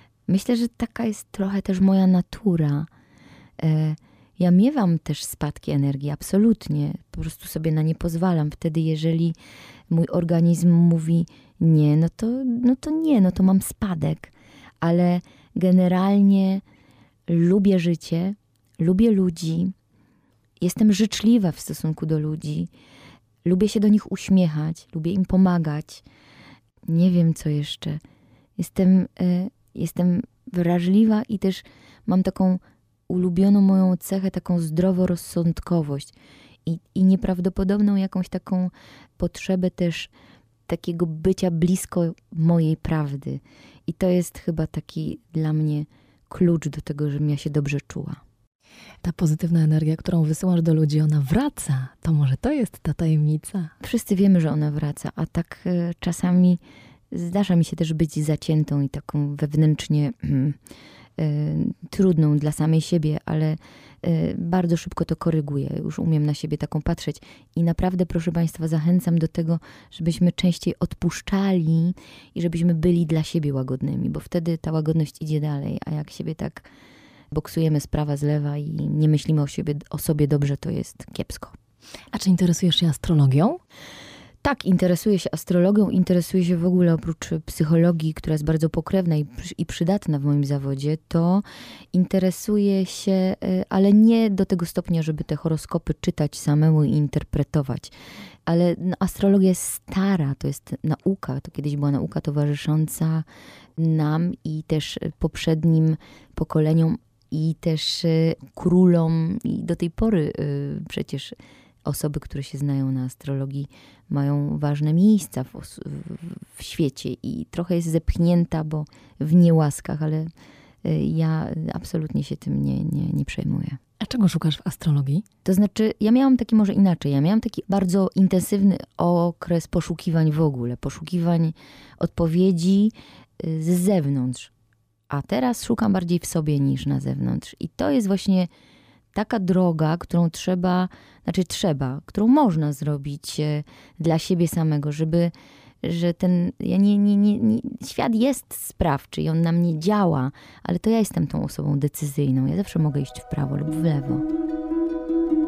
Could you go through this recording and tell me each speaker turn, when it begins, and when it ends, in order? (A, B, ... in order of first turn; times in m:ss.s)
0:00.3-0:02.9 A
0:03.6-0:09.4 A
0:09.9-0:16.6 A
0:17.3-0:19.7 A
0:20.6-0:22.7 A
0:23.4-0:26.0 A
0:26.9-0:28.0 A
0:28.6-0:36.1 A
0:36.6-0:40.1 A
0:40.7-0:48.2 A
0:49.0-0:53.7 B
0:53.8-0:56.6 A
0:57.1-1:00.6 A
1:01.2-1:16.7 A
1:17.3-1:21.6 A
1:22.1-1:23.6 B
1:24.4-1:37.9 A
1:38.5-1:43.2 A
1:43.8-2:00.3 A
2:00.8-2:03.8 A
2:04.0-2:05.2 B
2:05.4-2:14.5 A
2:15.1-2:18.5 A
2:19.1-2:34.2 A